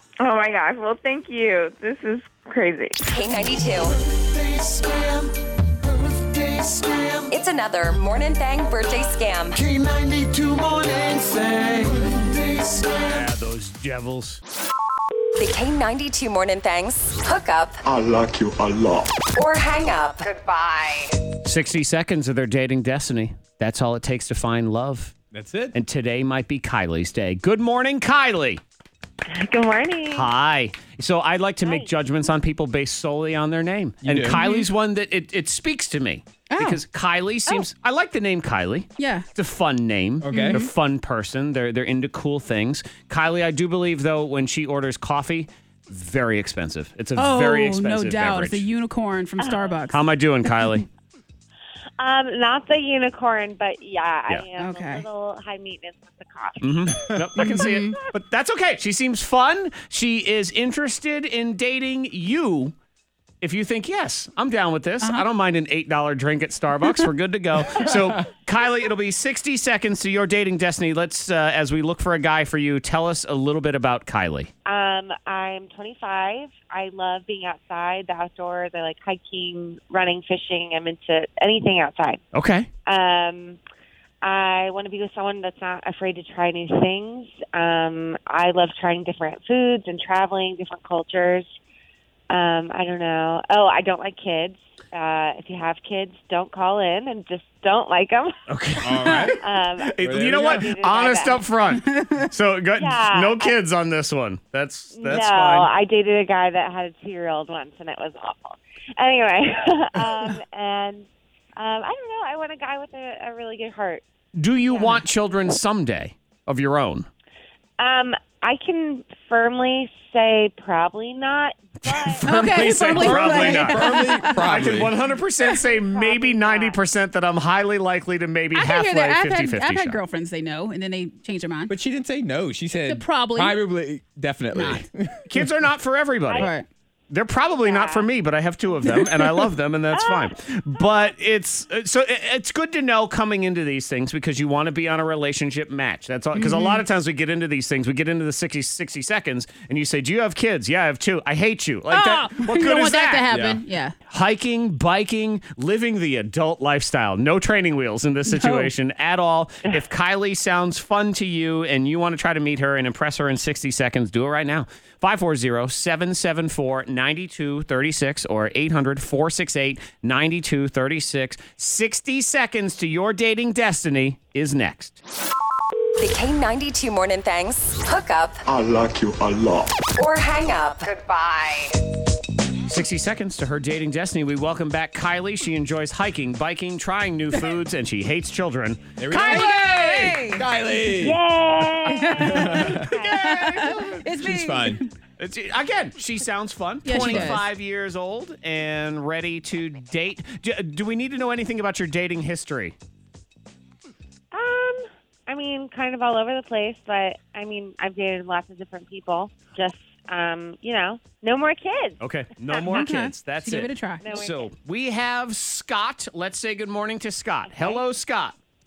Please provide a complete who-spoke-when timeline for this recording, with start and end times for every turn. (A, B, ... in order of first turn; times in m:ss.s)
0:00.2-0:03.0 A
0:03.0-0:03.9 B
0:04.1-0:05.3 C
0:06.2-0:07.3 C
0:07.3-0:09.5 B
0:09.5-0:13.2 C
0:13.1-0:14.4 D
0:15.4-0:17.8 B
0:17.9-0:19.1 C
0:19.3-0:20.7 B
0:21.4-0:25.1 D
0:25.3-0:25.8 E
0:25.7-0:28.6 D
0:29.3-0:30.3 F
0:30.1-0:48.6 D
0:31.6-0:31.9 F
0:34.0-0:34.4 E
0:34.3-0:34.7 G
0:36.5-0:36.8 G
0:39.0-0:39.2 G
0:40.2-0:40.6 E
0:40.3-0:40.7 G
0:47.2-0:50.0 G
0:49.4-0:49.8 F
0:49.9-0:50.8 D
0:52.0-0:56.9 F
0:54.6-0:55.0 G
0:56.6-1:02.7 D
0:57.4-0:58.0 G
1:03.4-1:14.5 D
1:07.8-1:08.2 E
1:14.6-1:22.2 F
1:22.3-1:22.7 D
1:22.8-1:23.6 F
1:24.2-1:31.5 F
1:32.3-1:38.4 F
1:38.5-1:45.7 D
1:38.8-1:39.4 E
1:39.4-1:41.5 F
1:40.0-1:40.7 E
1:41.8-1:42.3 G
1:42.8-1:43.6 F
1:44.9-1:54.0 F
1:54.4-1:57.1 D
1:54.7-1:55.0 F
1:57.8-2:02.2 F
2:01.8-2:10.0 D
2:02.2-2:04.6 G
2:02.8-2:04.9 E
2:05.5-2:06.8 F
2:08.5-2:11.7 G
2:11.7-2:15.4 E
2:12.9-2:13.6 G
2:15.3-2:16.5 D
2:16.3-2:16.5 F
2:16.4-2:16.6 G
2:17.1-2:33.6 D
2:17.6-2:18.1 F
2:18.9-2:19.3 G
2:19.9-2:21.0 F
2:26.3-2:26.8 G
2:31.9-2:33.9 G
2:34.1-2:55.0 D
2:38.2-2:38.7 G
2:56.0-2:58.5 B
2:58.7-2:59.6 C
2:59.9-3:01.7 B
3:02.7-3:10.2 D
3:09.0-3:11.2 E
3:09.1-3:10.5 G
3:11.0-3:13.2 F
3:11.9-3:14.9 G
3:12.1-3:14.0 D
3:12.3-3:12.9 E
3:14.1-3:14.8 E
3:15.2-3:22.8 D
3:16.8-3:17.4 G
3:17.1-3:17.3 E
3:24.3-3:32.8 F
3:32.0-3:38.4 D
3:32.7-3:34.0 G
3:34.0-3:34.5 F
3:37.5-3:37.8 F